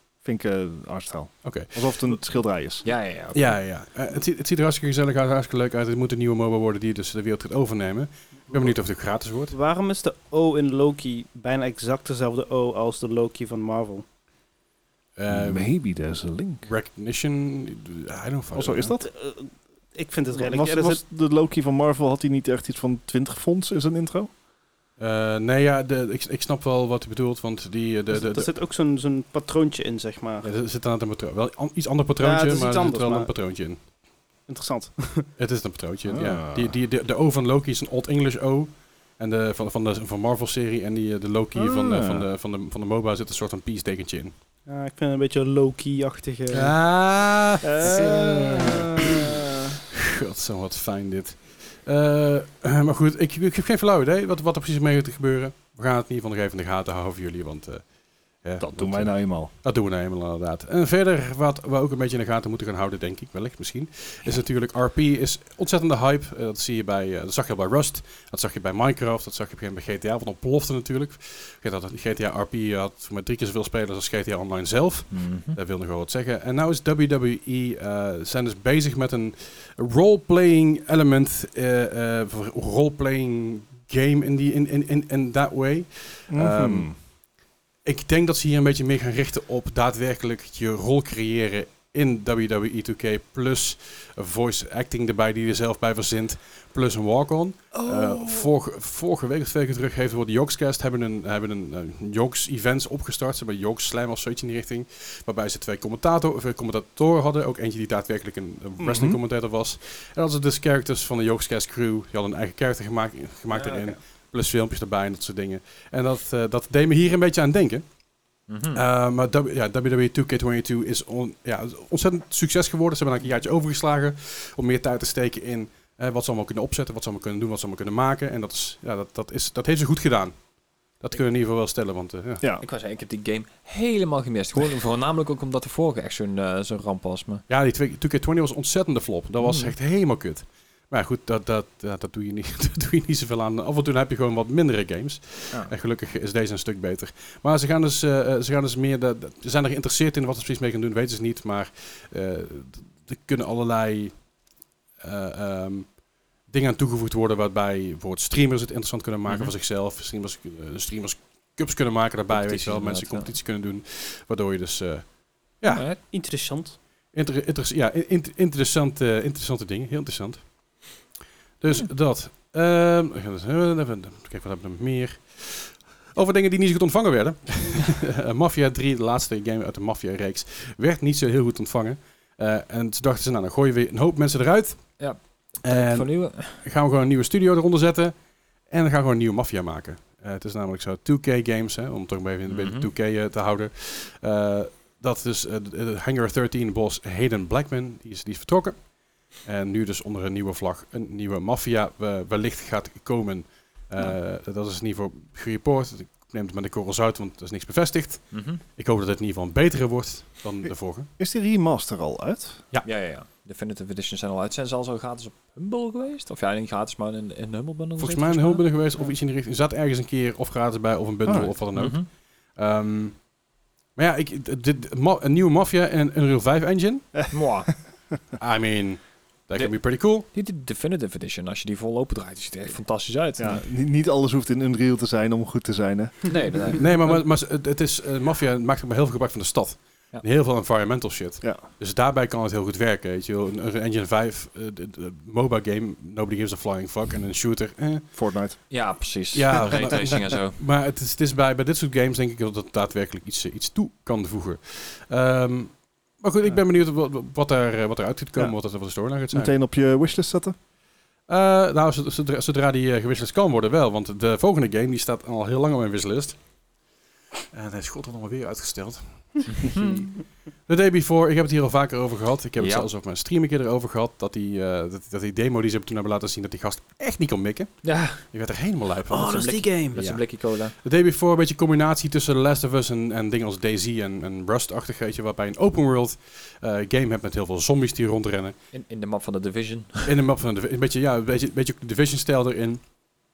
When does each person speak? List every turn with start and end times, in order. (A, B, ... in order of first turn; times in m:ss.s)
0:00.2-0:02.9 A
0:01.4-0:02.1 B
0:02.8-0:03.5 C
0:03.3-0:09.5 B
0:09.5-0:14.0 D
0:15.2-0:15.7 B
0:15.3-0:16.6 A
0:16.6-0:18.9 B
0:18.5-0:19.1 A
0:19.0-0:21.0 D
0:20.3-0:24.3 A
0:25.0-0:28.5 B
0:28.1-0:30.5 D
0:30.4-0:33.8 B
0:32.2-0:33.3 D
0:34.5-0:35.3 D
0:35.4-0:44.3 B
0:36.1-0:36.8 A
0:41.6-0:42.2 A
0:44.6-0:46.8 D
0:46.5-0:49.1 B
0:47.6-0:49.3 A
0:47.8-0:48.8 C
0:49.9-0:57.8 B
0:58.4-1:26.9 B
0:58.6-0:59.5 A
1:15.1-1:15.6 C
1:26.3-1:26.9 A
1:27.8-1:57.8 B
1:37.8-1:38.4 A
1:48.8-1:49.2 A
1:53.5-1:53.9 D
1:58.5-1:58.8 C
1:58.7-2:10.3 B
2:11.0-2:12.4 B
2:12.6-2:17.4 C
2:17.5-2:34.1 B
2:19.4-2:19.7 C
2:35.0-2:35.9 B
2:36.5-2:45.1 B
2:42.3-2:43.3 C
2:45.6-2:45.9 B
2:45.7-2:46.0 C
2:46.1-2:46.8 D
2:47.1-2:50.4 B
2:51.6-3:05.0 B
3:05.0-3:06.6 C
3:05.6-3:08.1 B
3:08.7-3:18.8 B
3:12.5-3:12.9 C
3:19.4-3:31.1 B
3:28.3-3:28.6 C
3:30.6-3:32.6 A
3:32.8-3:39.1 C
3:38.0-3:43.2 B
3:41.2-3:41.6 A
3:41.7-3:42.0 C
3:44.0-3:47.1 B
3:47.3-3:47.7 C
3:48.4-3:50.3 B
3:49.5-3:53.7 C
3:53.4-3:56.3 A
3:56.3-3:57.2 C
3:56.8-4:08.1 B
4:08.1-4:08.6 A
4:08.7-4:10.6 C
4:09.3-4:19.5 B
4:19.3-4:20.5 A
4:21.3-4:26.4 B
4:27.5-4:30.1 B
4:29.6-4:30.0 C
4:30.6-4:48.6 B
4:32.6-4:32.9 C
4:37.8-4:38.2 C
4:39.1-4:40.0 D
4:39.3-4:40.7 C
4:48.7-4:50.1 C
4:50.0-4:52.8 B